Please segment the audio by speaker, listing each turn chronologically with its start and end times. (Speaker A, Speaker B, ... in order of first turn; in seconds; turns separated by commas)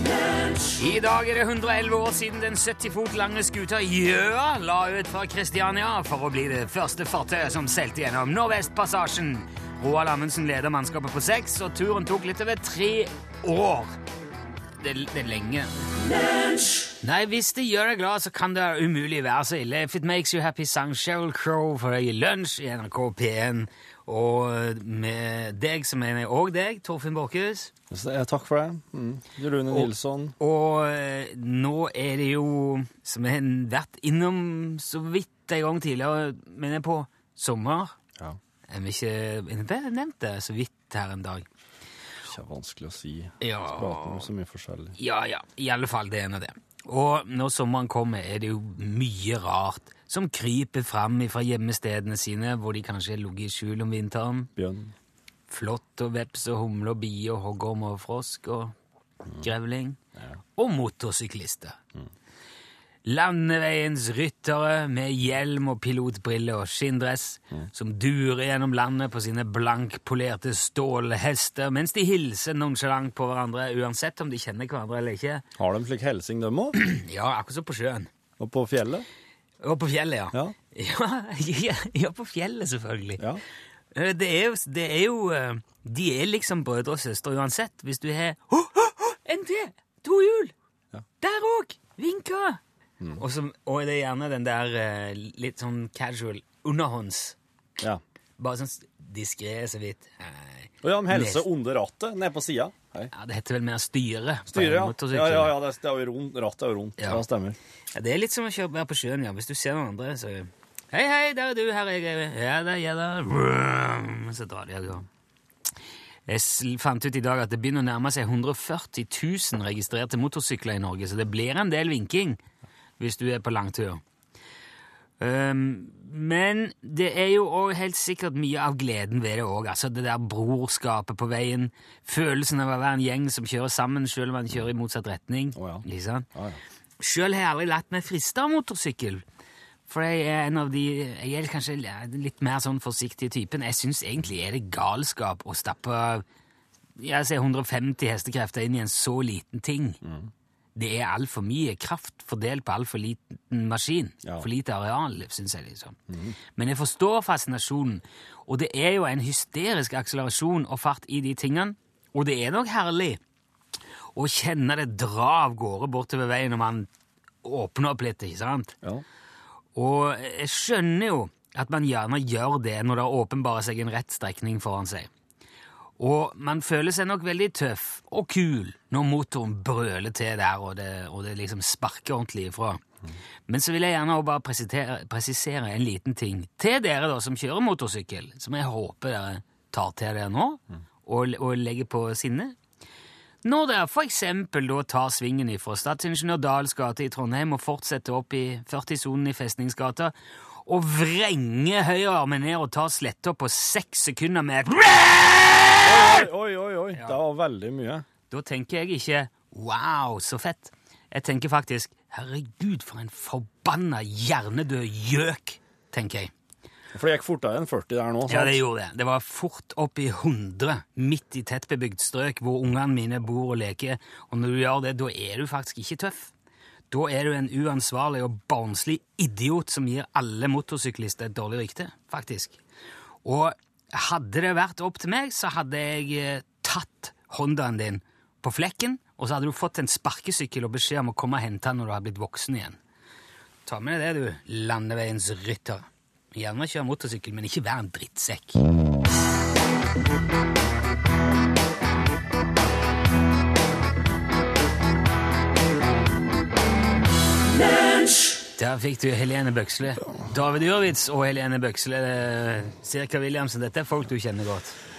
Speaker A: 0.7-13.9, Speaker A: 14.8-15.7, Speaker A: 17.0-27.7, Speaker B: 27.9-30.3, Speaker A: 29.7-37.9, Speaker A: 38.7-41.5, Speaker B: 42.2-45.0, Speaker A: 43.4-44.3, Speaker A: 45.0-54.5, Speaker B: 54.5-54.9, Speaker A: 55.5-58.7, Speaker A: 59.4-60.0, Speaker A: 60.5-61.8, Speaker A: 63.0-75.4, Speaker B: 75.6-76.8, Speaker A: 76.8-78.1, Speaker B: 78.4-79.0, Speaker A: 79.6-83.2, Speaker A: 83.9-90.5, Speaker A: 91.2-92.6, Speaker A: 93.2-97.3, Speaker A: 98.4-101.4, Speaker B: 100.8-103.1, Speaker A: 103.1-105.6, Speaker B: 104.5-107.6, Speaker A: 107.9-115.0, Speaker A: 116.3-122.4, Speaker A: 123.0-124.0, Speaker A: 125.2-136.3, Speaker B: 135.6-136.6, Speaker A: 137.0-139.2, Speaker A: 139.9-146.2, Speaker A: 147.0-150.0, Speaker B: 150.0-150.3, Speaker A: 150.8-156.0, Speaker B: 156.1-156.4, Speaker A: 156.6-163.2, Speaker A: 164.1-166.9, Speaker A: 167.4-168.7, Speaker A: 169.7-175.1, Speaker A: 176.0-182.8, Speaker A: 183.5-192.6, Speaker A: 193.4-200.1, Speaker A: 200.6-206.2, Speaker B: 205.8-208.0, Speaker A: 206.9-207.2, Speaker A: 208.3-216.3, Speaker B: 216.9-218.6, Speaker A: 218.3-226.3, Speaker A: 226.9-232.6, Speaker A: 233.2-242.8, Speaker A: 243.7-248.6, Speaker A: 258.5-264.8